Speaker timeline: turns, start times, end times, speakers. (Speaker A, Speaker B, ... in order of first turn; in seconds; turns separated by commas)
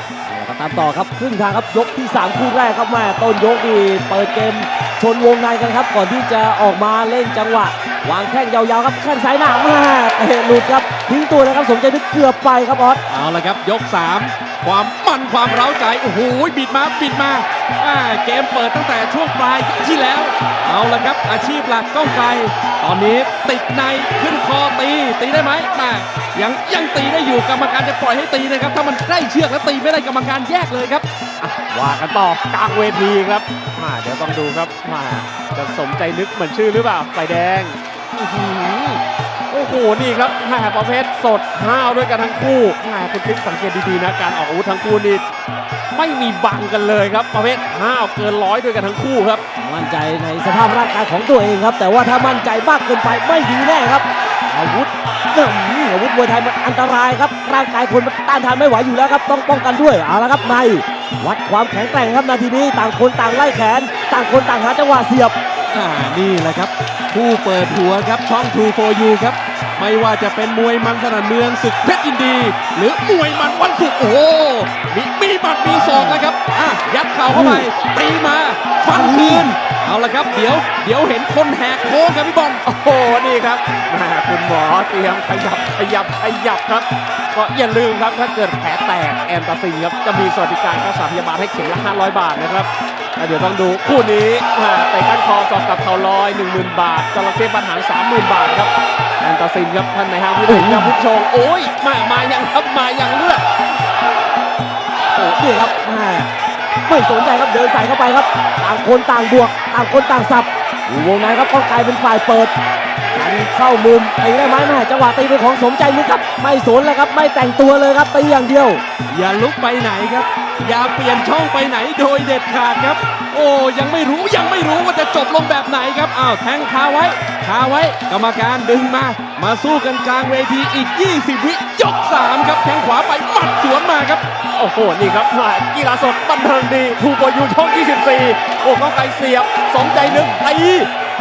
Speaker A: 0.2-13.0, Speaker B: 13.1-31.1, Speaker C: 31.4-45.2, Speaker C: 45.9-49.4, Speaker A: 49.6-65.4, Speaker B: 65.7-82.6, Speaker A: 75.8-76.2, Speaker A: 77.3-77.7, Speaker A: 78.9-79.5, Speaker C: 82.7-103.5, Speaker A: 100.5-101.0, Speaker A: 105.2-106.3, Speaker A: 106.9-112.5, Speaker A: 113.1-118.8, Speaker B: 119.1-134.2, Speaker C: 134.6-140.9, Speaker A: 139.9-140.4